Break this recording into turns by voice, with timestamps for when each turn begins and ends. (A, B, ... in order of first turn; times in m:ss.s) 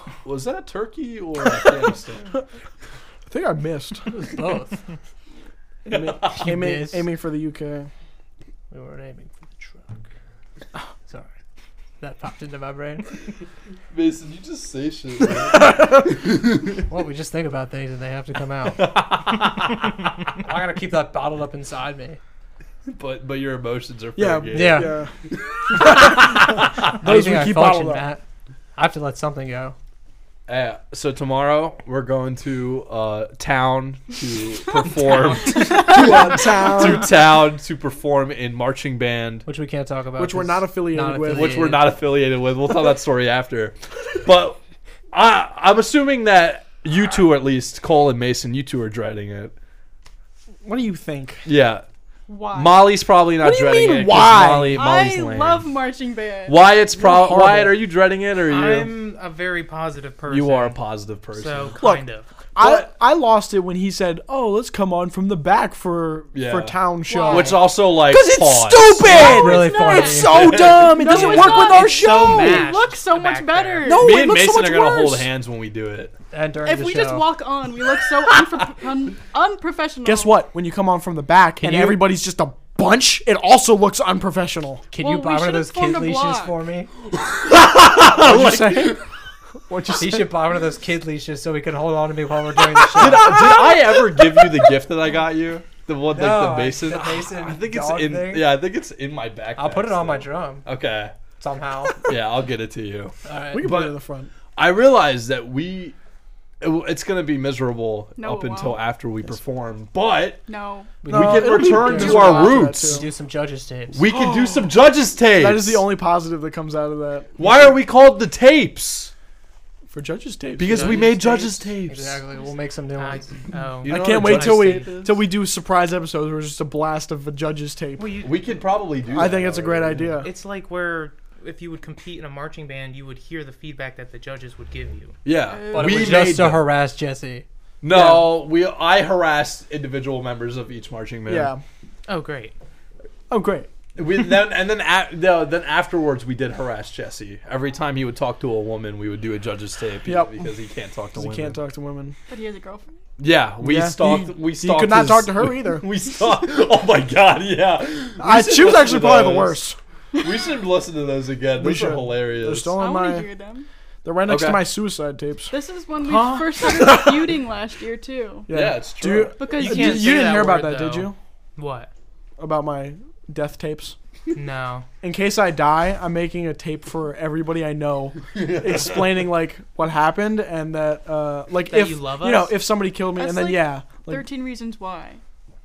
0:00.2-0:02.4 A
0:03.3-0:04.1 B
0:04.1-0:04.8 C
0:05.8-0:07.9 B
0:06.2-0:07.1 C
0:08.7-0:10.0 C
0:12.0-0:13.1 C
0:13.9-0:16.8 A
0:15.4-0:16.1 B
0:16.9-0:18.9 C
0:18.7-0:19.9 A
0:20.4-0:22.2 C
0:22.9-0:27.0 A
0:24.2-0:25.1 B
0:24.5-0:25.0 C
0:25.6-0:28.0 B
0:27.0-0:28.2 C
0:28.8-0:29.8 C
0:30.5-0:39.4 A
0:35.0-0:35.7 D
0:35.6-0:36.1 E
0:35.7-0:37.1 B
0:39.4-0:41.9 C
0:40.2-0:41.7 B
0:41.3-0:44.6 A
0:45.1-0:49.5 A
0:50.6-0:51.4 B
0:51.4-0:51.8 A
0:52.3-0:52.9 E
0:52.5-0:55.8 A
0:53.4-0:54.8 B
0:53.4-0:53.9 E
0:54.7-0:56.7 E
0:56.4-0:58.9 A
0:56.9-0:57.8 B
0:58.4-1:00.8 D
1:00.3-1:01.8 A
1:01.3-1:02.2 D
1:01.8-1:02.0 B
1:02.6-1:12.7 B
1:02.6-1:02.9 A
1:06.3-1:09.6 A
1:07.1-1:07.7 E
1:09.0-1:10.5 C
1:09.5-1:14.4 E
1:10.3-1:11.5 A
1:11.6-1:13.9 D
1:13.8-1:15.3 B
1:13.9-1:16.1 A
1:16.3-1:17.4 C
1:16.6-1:20.4 E
1:18.4-1:18.9 A
1:20.0-1:24.8 B
1:21.6-1:22.1 C
1:24.9-1:26.9 C
1:25.0-1:26.6 E
1:27.1-1:29.0 A
1:27.8-1:29.0 B
1:29.7-1:30.3 B
1:30.0-1:33.4 C
1:32.9-1:41.1 A
1:36.1-1:38.6 C
1:39.6-1:40.6 C
1:41.4-1:42.1 C
1:42.0-1:44.0 A
1:43.2-1:43.7 C
1:43.5-1:44.3 B
1:44.5-1:46.0 A
1:46.6-1:50.4 A
1:48.2-1:48.8 E
1:50.4-1:51.0 E
1:51.0-1:53.0 A
1:51.0-1:54.0 C
1:51.0-1:53.0 B
1:53.9-1:55.8 A
1:54.0-1:54.8 B
1:55.3-1:57.4 B
1:57.4-1:59.1 A
1:59.9-2:01.2 B
2:00.6-2:02.2 A
2:00.7-2:01.6 D
2:01.0-2:03.3 C
2:03.0-2:04.9 D
2:03.8-2:05.2 A
2:03.8-2:08.1 B
2:08.0-2:08.8 D
2:08.2-2:10.2 A
2:09.1-2:10.3 B
2:10.2-2:15.2 D
2:15.2-2:16.7 A
2:15.5-2:16.4 E
2:15.7-2:17.4 C
2:17.8-2:21.5 A
2:17.9-2:18.3 B
2:21.2-2:21.6 B
2:22.1-2:22.5 D
2:23.3-2:23.7 B
2:24.0-2:31.6 A
2:30.0-2:30.5 B
2:31.1-2:32.2 B
2:32.3-2:32.9 E
2:33.2-2:39.6 A
2:33.6-2:35.8 B
2:38.2-2:39.8 B
2:40.2-2:42.7 A
2:41.6-2:43.3 B
2:42.7-2:43.6 E
2:44.0-2:47.3 B
2:44.3-2:44.7 A
2:45.5-2:48.5 E
2:48.5-2:51.2 B
2:48.5-2:49.4 A
2:49.4-2:50.3 E
2:49.5-2:51.9 D
2:52.4-2:54.0 B
2:54.3-2:54.9 D
2:55.0-3:04.2 B
2:58.3-2:59.1 A
3:01.6-3:02.5 D
3:03.1-3:05.2 E